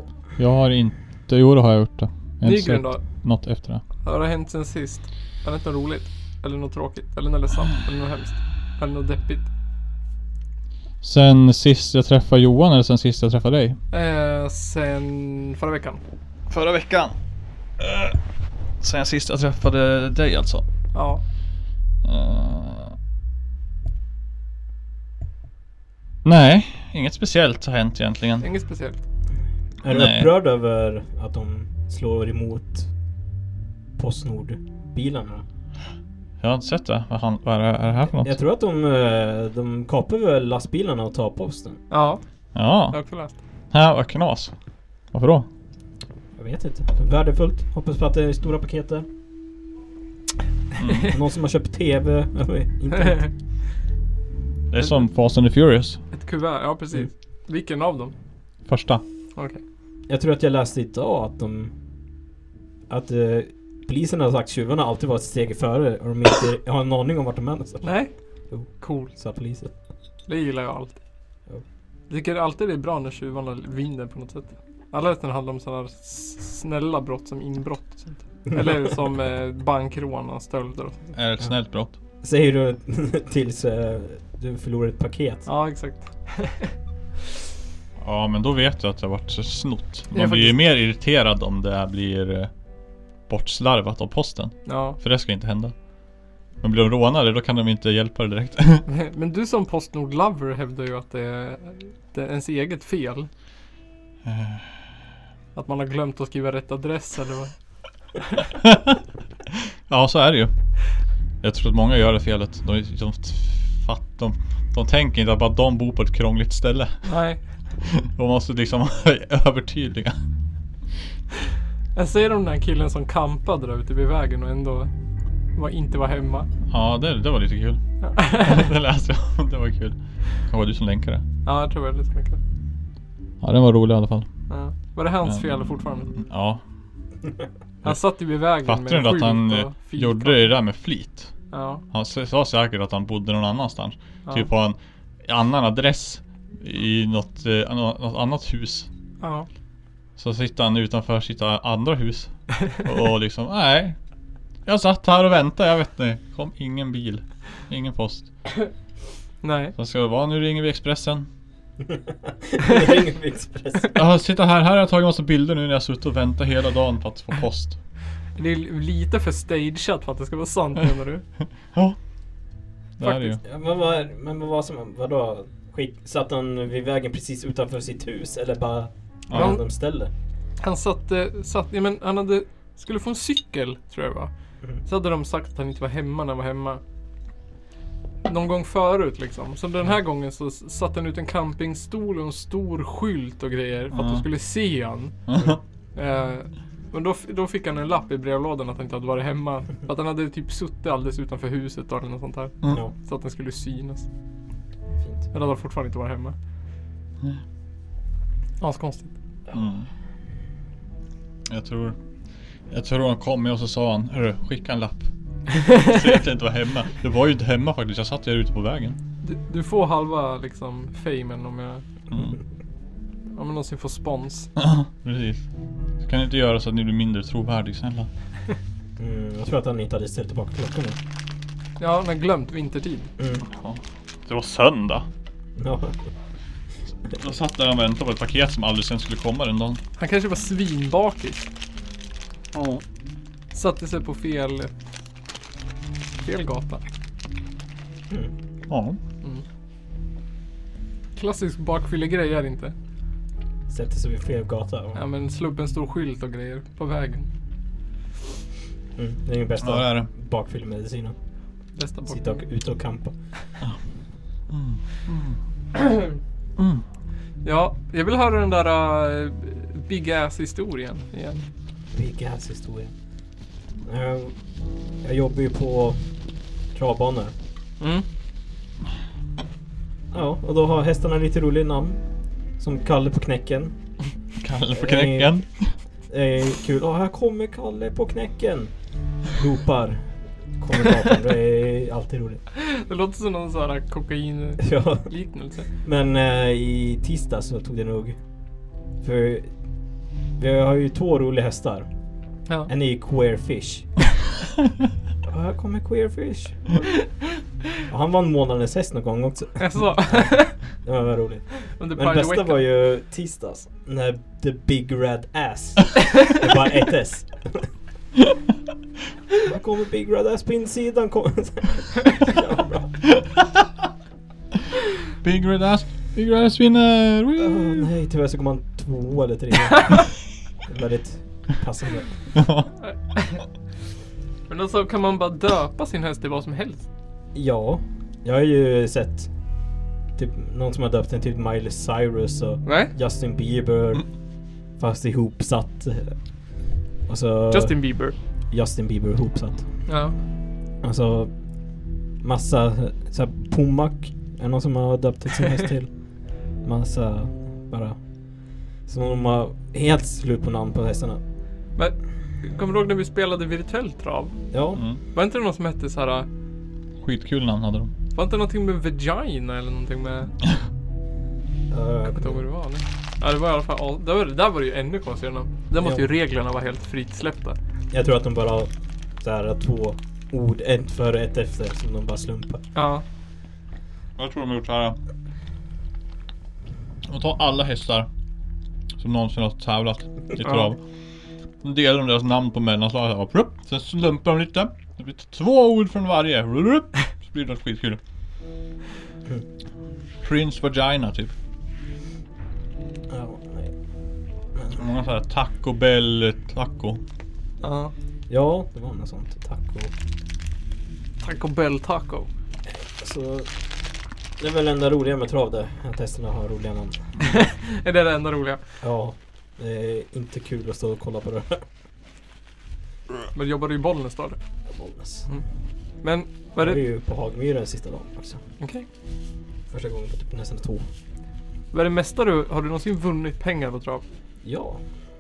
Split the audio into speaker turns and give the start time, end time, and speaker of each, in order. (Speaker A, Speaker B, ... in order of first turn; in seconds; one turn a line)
Speaker A: 0.4-3.8
Speaker B: 2.4-3.0
Speaker B: 4.0-9.5
Speaker A: 11.0-13.8
Speaker B: 13.9-16.0
Speaker A: 16.5-17.1
Speaker A: 17.8-18.2
Speaker A: 18.8-20.6
Speaker B: 20.9-21.2
Speaker A: 22.0-23.0
Speaker A: 26.2-28.5
Speaker B: 28.4-29.0
Speaker C: 29.8-32.9
Speaker A: 29.9-30.3
Speaker C: 34.0-35.4
Speaker A: 36.4-38.4
Speaker C: 38.2-41.8
Speaker B: 41.9-42.2
Speaker A: 42.5-43.2
Speaker B: 42.9-43.4
Speaker A: 43.7-44.5
Speaker A: 45.1-45.5
Speaker C: 46.4-49.0
Speaker A: 50.8-51.1
Speaker C: 51.1-53.3
Speaker B: 53.0-53.3
Speaker A: 54.7-56.0
Speaker B: 56.1-58.1
Speaker A: 58.6-59.0
Speaker C: 60.1-61.7
Speaker C: 62.9-67.9
Speaker B: 67.8-68.1
Speaker C: 68.5-69.7
Speaker B: 68.7-69.1
Speaker B: 70.3-71.0
Speaker B: 72.1-81.0
Speaker A: 81.1-82.0
Speaker C: 82.2-85.5
Speaker B: 85.5-86.7
Speaker A: 88.0-92.5
Speaker B: 90.1-90.6
Speaker A: 93.3-95.8
Speaker B: 94.7-95.0
Speaker A: 96.6-98.9
Speaker B: 98.9-103.3
Speaker A: 104.2-104.8
Speaker B: 105.5-107.5
Speaker A: 108.6-109.0
Speaker A: 109.9-110.5
Speaker A: 111.4-117.1
Speaker B: 117.0-117.4
Speaker A: 117.8-120.2
Speaker B: 122.0-124.9
Speaker B: 125.5-126.5
Speaker A: 126.7-131.2
Speaker B: 128.0-128.7
Speaker B: 131.4-132.4
Speaker A: 133.4-134.3
Speaker B: 134.5-136.1
Speaker A: 135.2-136.6
Speaker B: 137.8-140.5
Speaker A: 137.8-141.3
Speaker B: 141.5-141.8
Speaker A: 141.9-148.9
Speaker B: 149.2-149.5
Speaker A: 150.2-154.0
Speaker A: 154.7-158.3
Speaker B: 159.4-159.7
Speaker A: 159.8-161.3
Speaker C: 161.9-164.0
Speaker A: 163.9-167.8
Speaker B: 168.4-171.2
Speaker A: 173.0-173.4
Speaker B: 173.0-173.4
Speaker C: 173.4-180.1
Speaker A: 179.3-179.6
Speaker B: 179.3-179.6
Speaker B: 180.6-184.3
Speaker B: 184.8-186.8
Speaker B: 188.2-195.1
Speaker A: 193.9-194.2
Speaker A: 195.3-195.6
Speaker B: 195.9-204.1
Speaker C: 202.7-202.9
Speaker C: 205.0-205.2
Speaker B: 205.3-206.3
Speaker B: 208.6-209.1
Speaker A: 209.5-209.9
Speaker A: 211.5-212.0
Speaker A: 212.7-219.0
Speaker B: 219.2-221.8
Speaker A: 222.1-222.4
Speaker B: 223.3-224.5
Speaker A: 224.6-225.4
Speaker A: 226.0-228.1
Speaker C: 229.0-231.0
Speaker B: 231.8-233.1
Speaker C: 233.2-233.4
Speaker A: 233.5-235.1
Speaker C: 235.6-236.1
Speaker A: 237.1-239.8
Speaker B: 240.0-241.5
Speaker A: 242.5-242.8
Speaker B: 243.5-244.7
Speaker B: 246.2-246.8
Speaker A: 248.7-249.0
Speaker B: 251.2-252.8
Speaker C: 253.7-255.0
Speaker B: 254.9-257.3
Speaker C: 259.0-261.1
Speaker A: 259.6-260.1
Speaker B: 261.8-262.4
Speaker C: 262.1-263.1
Speaker A: 264.5-265.4
Speaker A: 266.6-266.8
Speaker B: 267.4-271.4
Speaker C: 271.9-272.9
Speaker C: 273.8-274.4
Speaker C: 275.0-276.0
Speaker C: 276.7-277.3
Speaker B: 277.8-278.0
Speaker C: 280.1-282.0
Speaker C: 282.6-283.8
Speaker A: 284.4-285.8
Speaker C: 284.7-285.4
Speaker C: 286.1-288.7
Speaker C: 289.2-292.4
Speaker B: 292.5-295.7
Speaker C: 294.6-295.1
Speaker C: 295.8-298.2
Speaker C: 299.0-299.5
Speaker C: 300.4-301.9
Speaker C: 302.7-303.9
Speaker C: 305.2-306.9
Speaker C: 307.9-317.7
Speaker B: 309.6-310.6
Speaker B: 311.6-312.6
Speaker C: 319.4-323.1
Speaker A: 325.2-327.9
Speaker C: 327.4-332.1
Speaker A: 332.4-332.7
Speaker B: 332.9-333.4
Speaker B: 334.5-336.9
Speaker C: 337.3-339.3
Speaker C: 340.1-344.1
Speaker B: 342.6-342.9
Speaker C: 344.8-346.2
Speaker C: 347.1-347.9
Speaker B: 347.5-348.1
Speaker C: 348.5-349.6
Speaker B: 349.9-350.1
Speaker C: 350.8-351.3
Speaker C: 352.2-356.0
Speaker C: 356.6-358.0
Speaker C: 358.8-361.2
Speaker B: 361.8-364.4
Speaker C: 364.5-364.8
Speaker B: 365.1-366.3
Speaker A: 367.0-367.9
Speaker B: 368.1-370.3
Speaker C: 371.7-372.4
Speaker B: 372.1-377.6
Speaker C: 375.8-376.1
Speaker C: 377.9-382.6
Speaker B: 382.7-383.0
Speaker A: 384.2-385.0
Speaker A: 387.1-388.1
Speaker A: 389.0-390.8
Speaker B: 390.4-390.7
Speaker A: 391.6-398.0
Speaker A: 400.2-401.3
Speaker C: 403.1-403.7
Speaker A: 404.8-407.0
Speaker B: 407.6-407.9
Speaker C: 408.3-409.9
Speaker B: 411.2-412.3
Speaker C: 412.6-413.5
Speaker C: 414.4-417.1
Speaker B: 417.2-418.6
Speaker C: 418.8-421.6
Speaker B: 423.3-424.4
Speaker C: 424.7-425.3
Speaker B: 426.0-426.8
Speaker C: 426.6-428.4
Speaker B: 428.6-428.9
Speaker C: 429.7-430.9
Speaker B: 431.7-434.0
Speaker C: 434.4-434.8